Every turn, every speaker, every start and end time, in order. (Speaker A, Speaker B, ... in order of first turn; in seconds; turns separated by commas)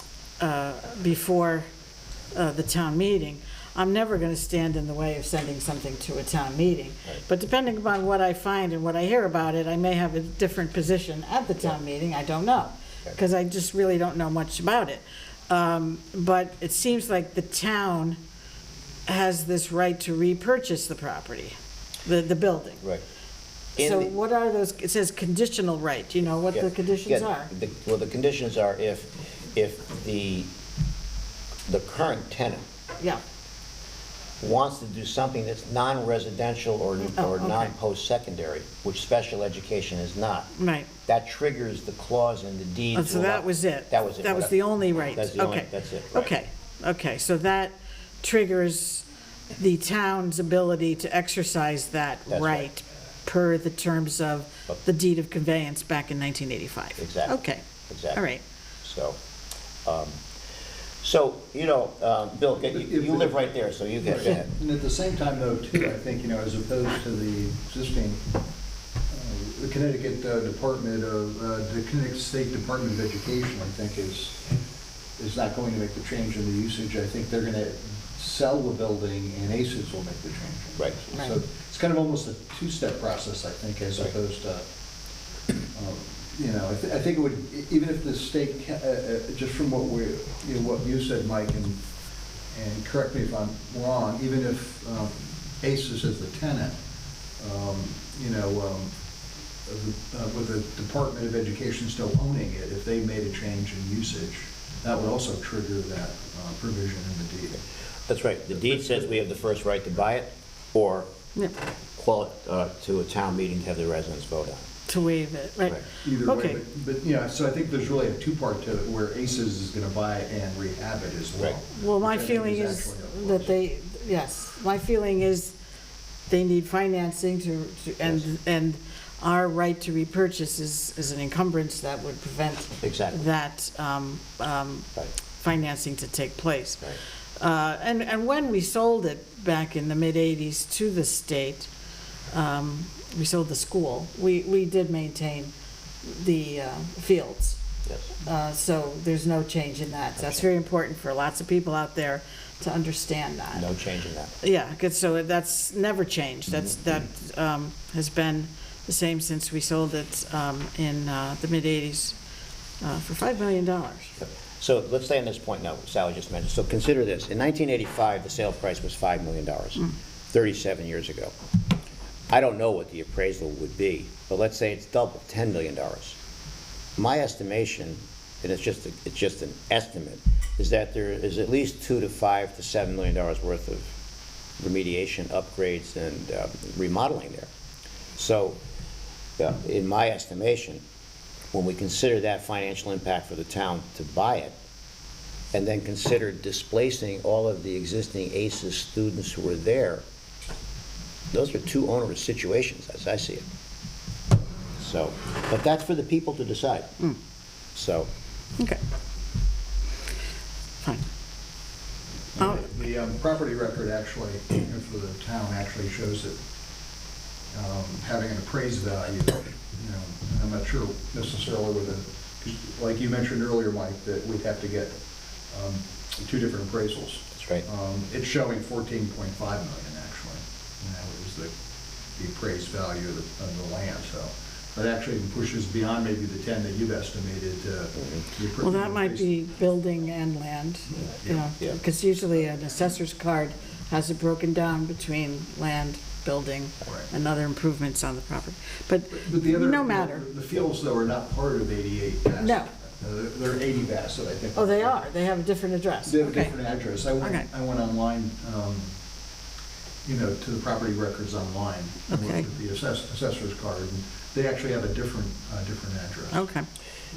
Speaker A: 0.4-1.7, Speaker A: 2.3-18.2, Speaker A: 19.1-22.8, Speaker A: 23.8-27.5, Speaker B: 23.8-24.1, Speaker B: 26.5-30.5, Speaker B: 31.7-32.6, Speaker B: 34.4-40.5, Speaker A: 37.1-37.7, Speaker A: 40.5-40.9, Speaker B: 41.1-46.4, Speaker A: 42.9-58.4, Speaker B: 52.3-52.7, Speaker B: 57.0-58.2, Speaker B: 58.8-59.2, Speaker B: 59.9-60.2, Speaker B: 61.0-64.5, Speaker C: 62.7-68.2, Speaker C: 69.1-74.4, Speaker C: 75.2-84.6, Speaker C: 85.7-91.8, Speaker C: 92.5-96.8, Speaker C: 97.4-98.9, Speaker C: 99.7-107.6, Speaker B: 108.1-111.1, Speaker C: 108.6-109.0, Speaker B: 112.0-114.7, Speaker A: 114.9-116.6, Speaker C: 116.0-123.5, Speaker A: 121.8-125.5, Speaker A: 126.3-136.9, Speaker B: 132.8-133.3, Speaker A: 137.4-141.7, Speaker A: 142.3-145.5, Speaker A: 146.1-147.6, Speaker A: 148.2-153.7, Speaker B: 153.5-154.3, Speaker A: 154.4-162.2, Speaker A: 162.8-164.2, Speaker B: 164.2-171.3, Speaker B: 172.3-176.2, Speaker B: 177.0-183.9, Speaker B: 184.6-187.5, Speaker B: 188.2-188.6, Speaker B: 189.4-190.8, Speaker B: 191.5-194.6, Speaker B: 195.5-200.0, Speaker B: 201.3-203.4, Speaker B: 204.8-206.9, Speaker B: 207.8-208.1, Speaker C: 212.4-216.3, Speaker C: 217.5-225.0, Speaker C: 225.5-231.5, Speaker B: 227.4-227.7, Speaker C: 232.2-239.3, Speaker A: 238.6-250.2, Speaker C: 249.1-255.0, Speaker A: 252.4-252.7, Speaker A: 254.6-256.6, Speaker C: 256.1-258.9, Speaker A: 257.2-257.5, Speaker C: 260.1-266.4, Speaker A: 262.1-262.4, Speaker A: 266.3-266.7